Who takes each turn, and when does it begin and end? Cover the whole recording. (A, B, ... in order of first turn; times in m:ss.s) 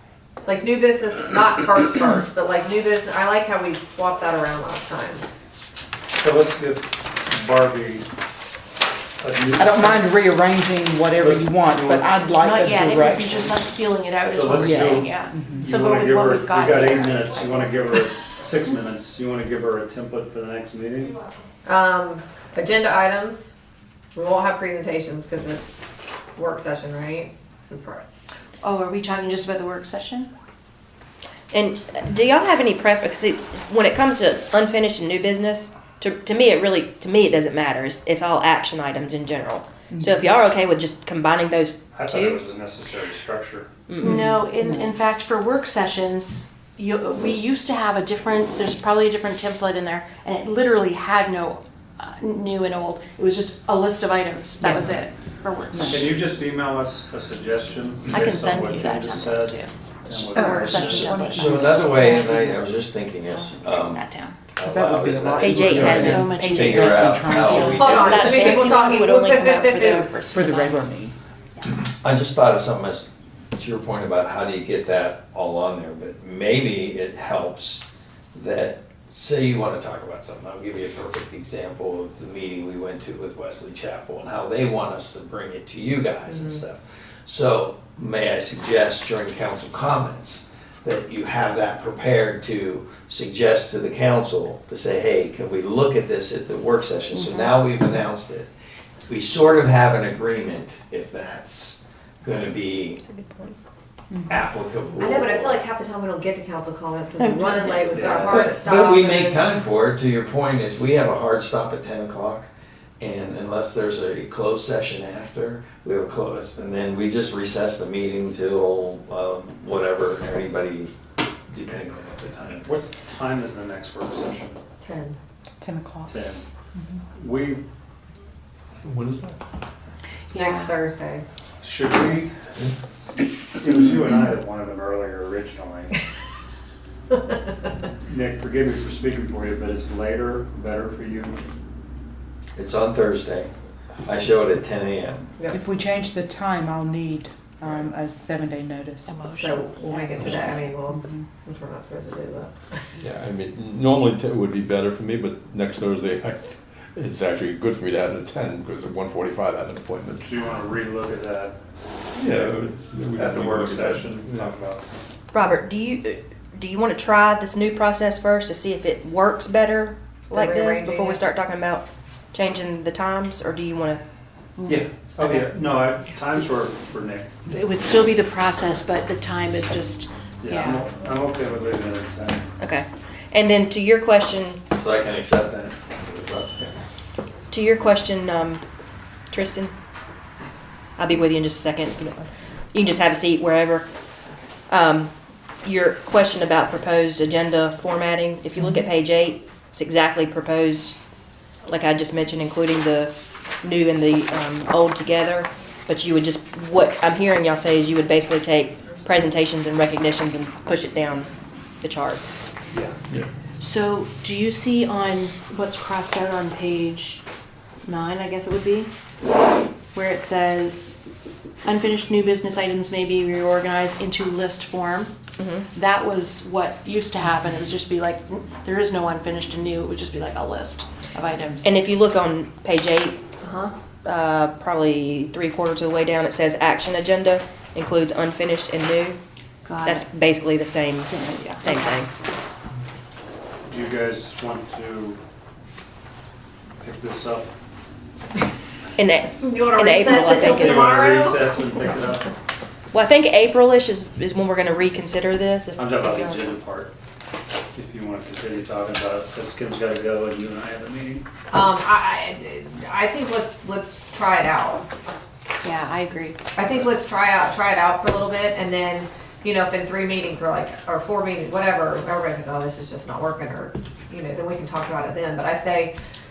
0:00.4-0:05.2 A
0:06.2-0:08.0 B
0:09.2-0:10.1 B
0:09.6-0:13.6 C
0:11.2-0:12.1 B
0:12.4-0:17.6 D
0:14.2-0:21.2 B
0:14.6-0:15.7 C
0:21.6-0:23.5 A
0:24.1-0:28.0 A
0:28.6-0:30.3 D
0:31.5-0:42.4 E
0:39.9-0:40.2 C
0:41.9-0:43.7 B
0:43.9-0:44.4 E
0:44.0-0:56.2 D
0:44.0-0:44.9 C
0:54.6-0:54.9 E
0:55.7-0:56.2 C
0:55.9-1:01.2 B
0:58.1-1:02.7 D
1:00.6-1:02.2 C
1:01.2-1:08.7 F
1:03.3-1:04.4 D
1:04.6-1:08.3 C
1:05.4-1:06.2 E
1:05.7-1:06.1 B
1:05.8-1:10.8 D
1:07.7-1:10.2 A
1:10.2-1:11.1 C
1:11.7-1:17.8 F
1:18.3-1:38.5 F
1:26.3-1:26.6 E
1:37.1-1:37.6 D
1:39.1-1:43.0 F
1:43.0-1:43.6 E
1:44.1-1:44.4 C
1:44.3-1:45.6 F
1:45.0-1:49.5 A
1:47.2-1:47.8 D
1:47.9-1:48.4 B
1:48.0-1:52.5 F
1:53.0-2:00.9 F
2:01.5-2:02.8 F
2:02.6-2:04.6 B
2:04.8-2:05.2 A
2:05.6-2:06.1 C
2:06.0-2:06.4 B
2:07.1-2:07.6 B
2:08.8-2:09.4 G
2:10.3-2:10.8 D
2:10.3-2:11.2 A
2:11.6-2:12.3 B
2:13.6-2:15.9 B
2:18.0-2:21.4 B
2:22.5-2:23.5 F
2:24.0-2:25.3 F
2:25.4-2:25.6 A
2:25.5-2:29.2 C
2:29.0-2:30.5 D
2:29.3-2:32.8 A
2:30.9-2:31.2 C
2:33.0-2:40.1 G
2:40.2-2:41.6 B
2:42.2-2:44.5 G
2:42.2-2:42.6 B
2:43.2-2:44.8 B
2:45.3-2:54.0 E
2:50.3-2:51.2 A
2:54.6-2:54.8 D
2:54.6-2:57.3 B
2:57.5-3:00.8 D
3:00.4-3:02.4 B
3:02.6-3:04.6 E
3:04.8-3:06.8 F
3:07.5-3:08.6 E
3:09.3-3:09.7 E
3:11.0-3:13.9 E
3:14.7-3:15.1 E
3:15.6-3:21.0 E
3:18.6-3:18.8 C
3:21.6-3:31.3 E
3:31.8-3:32.2 E
3:33.6-3:37.2 D
3:37.8-3:38.9 D
3:39.9-3:41.0 D
3:41.6-3:45.1 D
3:45.4-3:45.7 E
3:45.7-3:51.8 D
3:51.6-3:53.2 E
3:53.4-3:53.7 D
3:54.0-3:59.2 E
3:59.6-4:00.1 D
3:59.8-4:02.1 E
4:01.1-4:02.0 D
4:03.6-4:05.2 B
4:06.8-4:07.5 B
4:09.0-4:11.2 E
4:09.4-4:11.6 A
4:10.4-4:12.3 B
4:12.9-4:16.4 E
4:15.8-4:16.9 B
4:17.7-4:21.2 B
4:21.5-4:24.9 A
4:25.6-4:26.4 D
4:26.6-4:35.9 A